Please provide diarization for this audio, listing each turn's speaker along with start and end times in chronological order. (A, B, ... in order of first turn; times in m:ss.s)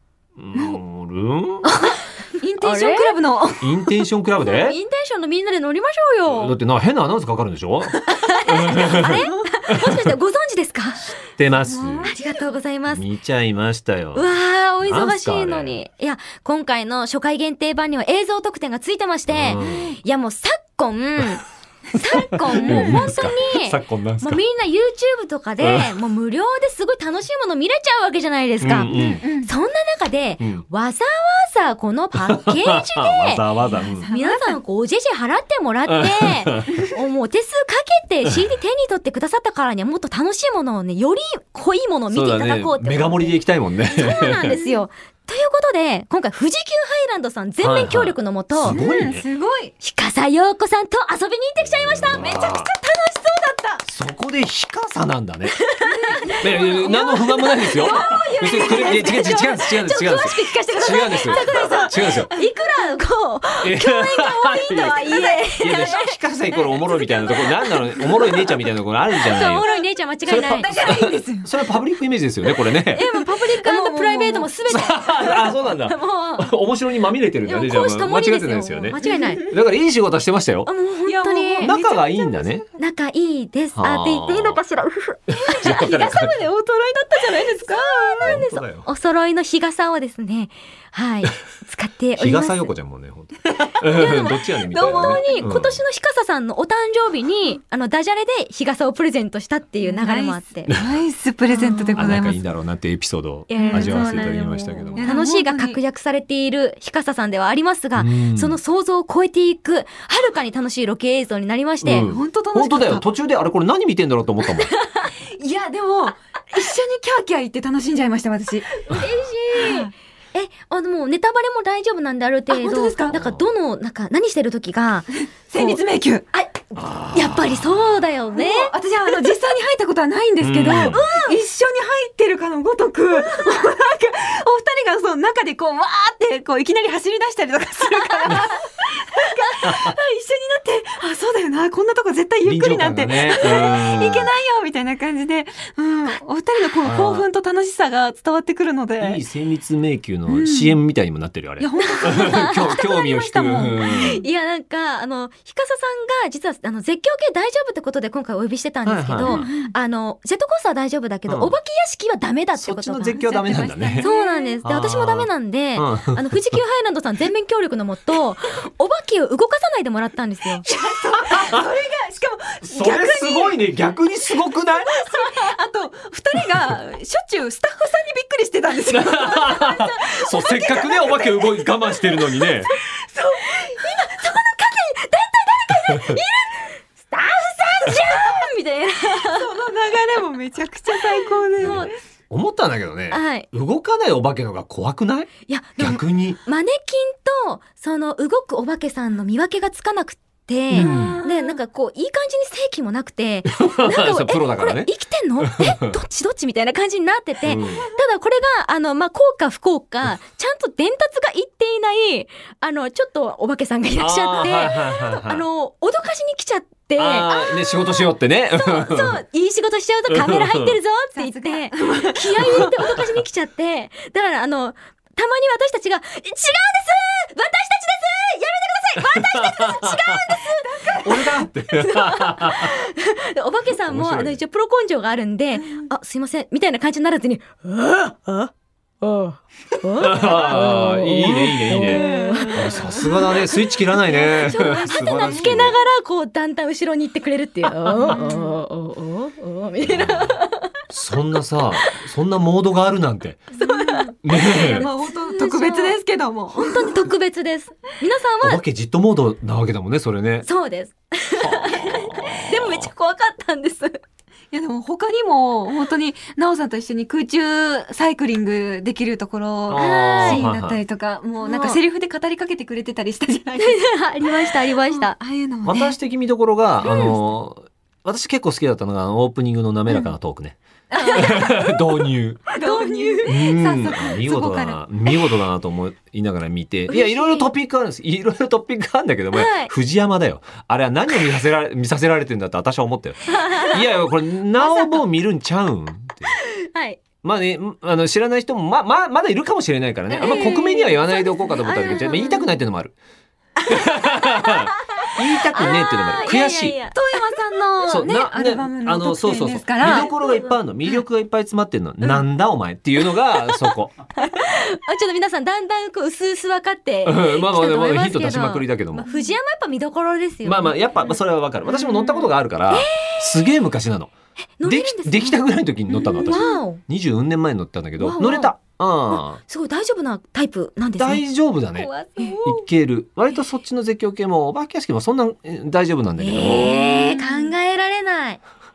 0:00.4-0:01.7 A
0:00.6-0:00.8 B
0:01.6-0:04.0 B
0:02.6-0:03.1 C
0:03.6-0:04.8 A
0:04.4-0:06.5 C
0:06.3-0:10.1 A
0:08.0-0:11.1 C
0:11.2-0:12.1 A
0:11.6-0:12.6 B
0:12.0-0:13.0 C
0:12.9-0:15.8 A
0:14.1-0:33.5 C
0:19.3-0:20.0 A
0:19.6-0:19.9 B
0:22.3-0:24.4 A
0:22.5-0:23.1 B
0:25.6-0:26.0 A
0:28.6-0:29.2 A
0:28.9-0:29.5 B
0:30.4-0:30.6 A
0:32.3-0:34.1 A
0:33.6-0:34.6 B
0:34.1-0:43.4 C
0:35.9-0:36.8 A
0:42.1-0:44.6 A
0:43.9-0:48.9 C
0:44.0-0:44.8 B
0:47.6-0:49.2 A
0:48.6-0:49.7 B
0:49.8-0:52.3 C
0:51.6-0:52.7 A
0:52.1-0:53.8 B
0:53.8-0:55.6 A
0:55.6-1:08.4 C
0:55.8-0:56.9 B
0:56.4-1:02.3 A
0:57.6-0:59.7 B
1:00.8-1:02.5 B
1:03.6-1:09.6 A
1:09.2-1:10.7 C
1:09.4-1:11.5 B
1:10.2-1:13.0 A
1:12.9-1:14.5 B
1:13.0-1:16.5 C
1:14.7-1:20.7 A
1:17.4-1:19.4 C
1:19.0-1:19.5 B
1:20.6-1:21.8 C
1:21.0-1:22.7 B
1:21.6-1:22.6 A
1:22.8-1:32.7 C
1:23.8-1:24.6 A
1:25.3-1:26.4 A
1:25.6-1:28.4 B
1:28.2-1:28.9 A
1:32.2-1:35.8 A
1:33.5-1:40.8 C
1:34.8-1:35.5 B
1:39.8-1:42.4 B
1:40.7-1:41.0 A
1:41.5-1:42.4 C
1:41.9-1:45.1 A
1:43.5-1:52.1 C
1:43.5-1:44.2 B
1:45.0-1:45.8 B
1:48.0-1:48.6 A
1:51.8-1:54.7 A
1:52.0-1:53.0 B
1:54.8-1:55.1 C
1:55.2-1:58.9 B
1:58.8-2:05.8 C
1:59.5-1:59.9 B
2:02.5-2:03.1 B
2:03.1-2:03.4 A
2:05.5-2:06.2 B
2:06.3-2:08.7 C
2:06.7-2:07.9 A
2:08.3-2:29.2 B
2:10.4-2:11.0 A
2:10.8-2:11.4 C
2:19.6-2:19.9 A
2:22.4-2:24.3 A
2:26.8-2:27.3 A
2:29.0-2:34.2 A
2:30.3-2:30.8 B
2:31.6-2:34.2 B
2:31.8-2:32.8 C
2:33.8-2:43.2 C
2:38.8-2:39.5 A
2:39.2-2:39.7 B
2:41.3-2:41.6 A
2:42.6-2:44.1 A
2:43.1-2:44.6 B
2:44.0-2:50.6 C
2:44.6-2:46.6 A
2:50.6-2:53.8 B
2:51.3-2:51.6 A
2:52.6-2:55.2 A
2:55.0-3:01.4 B
2:58.9-3:02.7 A
3:02.8-3:04.3 B
3:03.6-3:09.5 C
3:07.9-3:08.2 B
3:09.2-3:12.0 B
3:10.9-3:11.9 C
3:11.6-3:16.4 A
3:13.1-3:13.5 C
3:15.5-4:10.8 C
3:20.7-3:21.2 A
3:20.7-3:21.6 B
3:23.4-3:24.9 A
3:25.4-3:25.8 A
3:27.4-3:27.8 A
3:34.0-3:35.4 A
3:37.0-3:39.2 A
3:40.1-3:40.8 A
3:41.1-3:42.7 B
3:42.4-3:43.0 A
3:49.0-3:50.4 A
3:50.6-3:51.2 B
3:51.0-3:52.8 A
3:53.7-3:54.4 A
4:00.0-4:05.8 A
4:01.7-4:02.8 B
4:07.9-4:08.5 B
4:09.8-4:13.5 A
4:13.5-4:17.1 B
4:13.6-4:16.0 C
4:14.2-4:14.9 A
4:16.5-4:18.6 C
4:18.4-4:20.5 A
4:20.4-4:24.0 C
4:21.4-4:22.9 A
4:24.5-4:33.9 B
4:29.7-4:30.8 A
4:29.8-4:30.5 C
4:31.4-4:31.8 C
4:33.6-4:35.2 C
4:34.5-4:35.9 B
4:35.6-4:42.4 A
4:36.8-4:37.3 B
4:40.9-4:41.8 B
4:40.9-4:41.5 C
4:42.5-4:45.3 B
4:42.5-4:43.5 C
4:43.2-4:56.3 A
4:46.9-4:47.4 C
4:49.3-4:49.7 C
4:53.3-4:53.8 C
4:54.6-4:55.0 C
4:56.3-4:57.0 C
4:57.2-5:03.0 A
5:00.2-5:01.0 B
5:00.2-5:02.5 C
5:03.6-5:07.1 C
5:03.6-5:06.8 A
5:06.2-5:10.1 B
5:07.8-5:13.9 A
5:09.9-5:10.6 C
5:13.3-5:13.6 C
5:14.2-5:20.8 C
5:17.0-5:19.1 A
5:20.4-5:24.1 A
5:21.8-5:22.2 B
5:22.7-5:23.5 C
5:24.6-5:25.4 C
5:24.6-5:29.4 A
5:25.9-5:26.6 B
5:26.2-5:26.8 C
5:28.0-5:28.5 C
5:29.1-5:31.2 C
5:31.0-5:31.9 A
5:31.7-5:32.7 B
5:32.4-5:36.7 A
5:36.2-5:38.4 C
5:36.4-5:37.5 B